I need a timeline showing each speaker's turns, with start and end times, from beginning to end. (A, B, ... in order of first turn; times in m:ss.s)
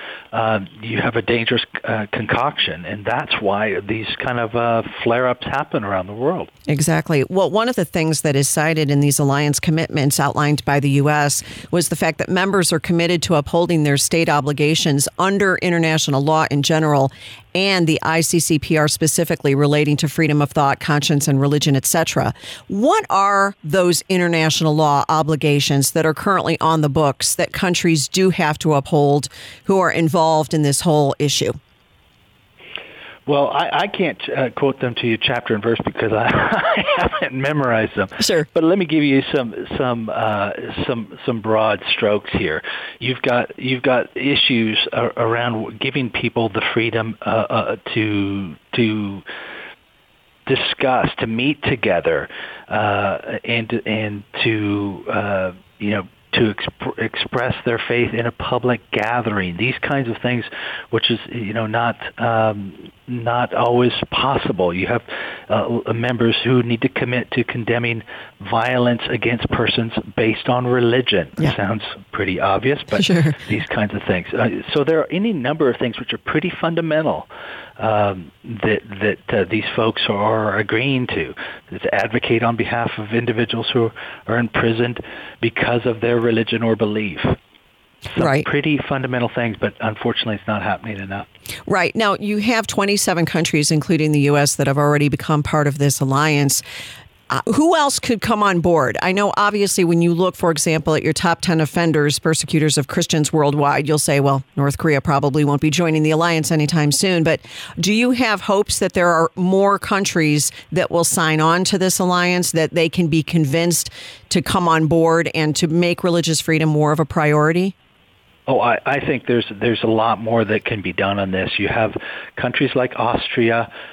0:00.3-0:06.5 A
0:06.7-0:31.6 B
0:33.3-0:49.2 A
0:38.2-0:38.5 B
0:50.5-1:17.3 A
1:13.0-1:13.4 B
1:17.8-1:27.4 A
1:28.2-1:31.3 A
1:28.2-1:28.5 B
1:31.7-1:36.6 B
1:37.3-1:57.7 B
1:58.5-2:03.7 A